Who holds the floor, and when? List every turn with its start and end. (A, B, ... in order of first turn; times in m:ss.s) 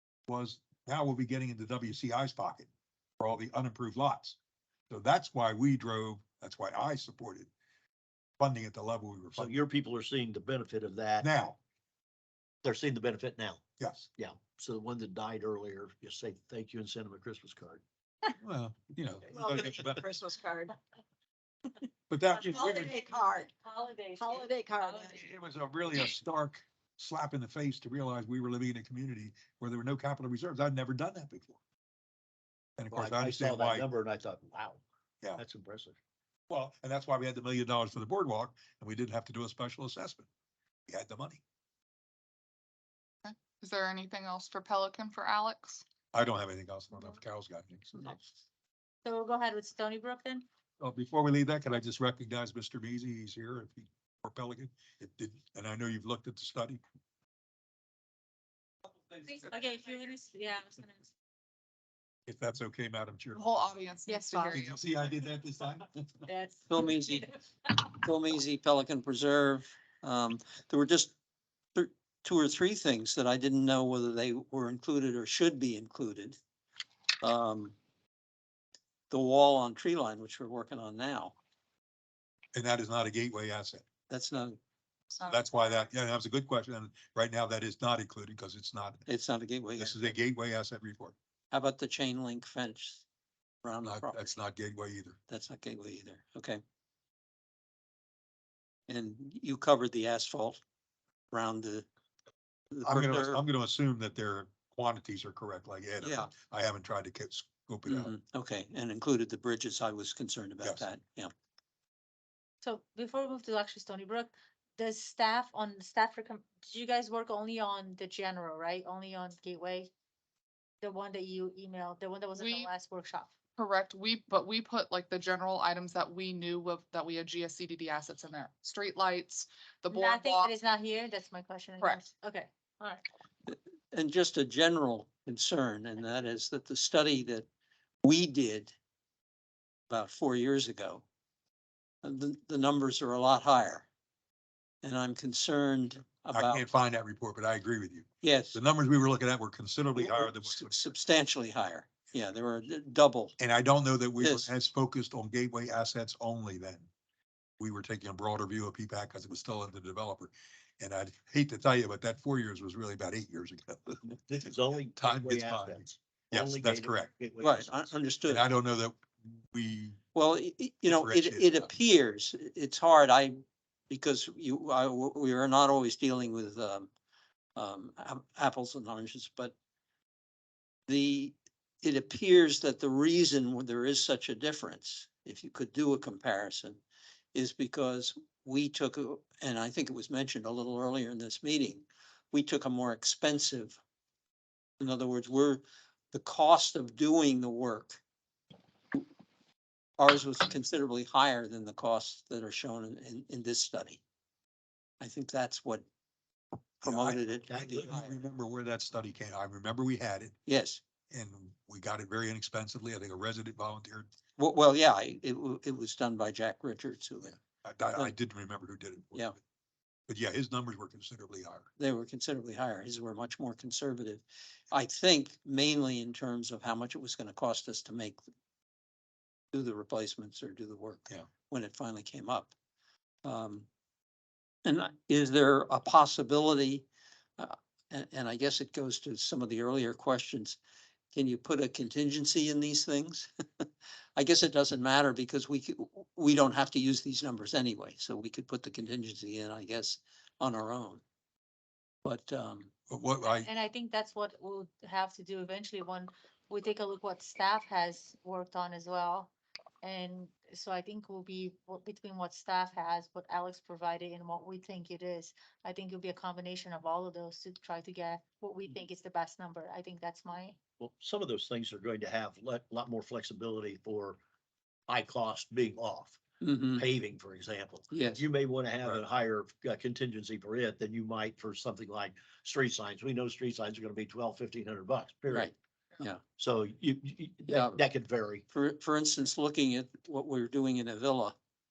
0:00.3-0:02.7 A
0:03.2-0:04.4 A
0:04.9-0:07.5 A
0:08.4-0:09.6 A
0:09.4-0:11.3 B
0:11.2-0:11.6 A
0:12.6-0:13.6 B
0:13.8-0:14.1 A
0:14.2-0:17.8 B
0:18.4-0:20.0 A
0:19.3-0:20.7 C
0:22.1-0:23.0 A
0:22.4-0:23.5 C
0:23.6-0:25.2 D
0:24.2-0:25.2 C
0:25.0-0:31.6 A
0:32.8-0:33.9 A
0:32.9-0:34.8 B
0:35.4-0:36.0 B
0:36.5-0:40.3 A
0:40.9-0:41.4 A
0:43.2-0:45.8 E
0:46.1-0:48.2 A
0:49.0-0:50.4 D
0:50.8-0:56.8 A
0:59.2-1:01.1 D
1:02.3-1:03.4 A
1:03.3-1:04.7 E
1:04.1-1:04.6 D
1:04.5-1:06.2 A
1:06.3-1:07.2 D
1:06.7-1:07.3 F
1:07.9-1:11.1 F
1:11.8-1:16.4 F
1:17.2-1:17.8 F
1:19.1-1:21.4 F
1:22.5-1:23.9 A
1:24.1-1:24.6 F
1:25.1-1:25.6 E
1:25.3-1:29.0 A
1:29.1-1:30.2 F
1:29.8-1:31.2 A
1:31.5-1:33.0 F
1:33.6-1:34.4 F
1:33.8-1:35.2 A
1:35.3-1:36.6 F
1:38.9-1:40.6 F
1:41.3-1:41.9 F
1:42.7-1:43.4 F
1:42.8-1:48.1 A
1:46.0-1:46.3 F
1:47.9-1:51.3 F
1:50.6-1:50.9 A
1:52.6-1:59.9 D
2:00.8-2:03.3 D
2:02.4-2:02.7 E
2:03.6-2:10.5 E
2:09.9-2:13.0 D
2:11.8-2:12.1 E
2:13.5-2:17.5 F
2:18.0-2:18.8 F
2:19.9-2:21.0 F
2:22.0-2:23.9 F
2:24.8-2:26.7 F
2:26.3-2:30.9 A
2:28.2-2:28.6 F
2:30.0-2:33.4 F
2:33.4-2:36.9 A
2:34.2-2:34.5 F
2:37.6-2:44.2 A
2:44.2-2:47.9 B
2:45.0-2:47.1 A
2:47.4-2:48.4 F
2:48.3-2:50.0 A
2:50.2-2:53.4 F
2:50.9-2:51.7 A
2:53.9-2:56.9 F
2:57.6-2:59.6 F
3:00.9-3:06.8 F
3:07.3-3:13.8 F
3:14.8-3:18.0 F
3:20.0-3:24.0 F
3:25.0-3:25.8 F
3:26.8-3:28.2 F
3:26.8-3:30.4 A
3:27.5-3:27.8 B
3:30.5-3:30.8 F
3:31.1-3:34.1 A
3:34.4-3:37.4 F
3:37.6-3:39.4 A
3:40.1-3:41.7 A
3:41.8-3:48.2 F
3:49.5-3:52.5 F
3:53.2-3:53.7 F
3:54.6-3:56.9 F
3:57.4-4:00.6 F
4:01.1-4:11.0 F
4:12.0-4:12.7 F
4:12.9-4:13.5 A
4:13.4-4:30.6 D
4:30.8-4:34.2 B
4:34.9-4:36.2 B
4:36.4-4:36.8 F
4:36.8-4:45.5 B
4:37.9-4:38.2 F
4:45.3-4:46.2 F
4:46.4-4:48.4 B
4:47.5-4:47.8 F
4:48.5-4:51.4 F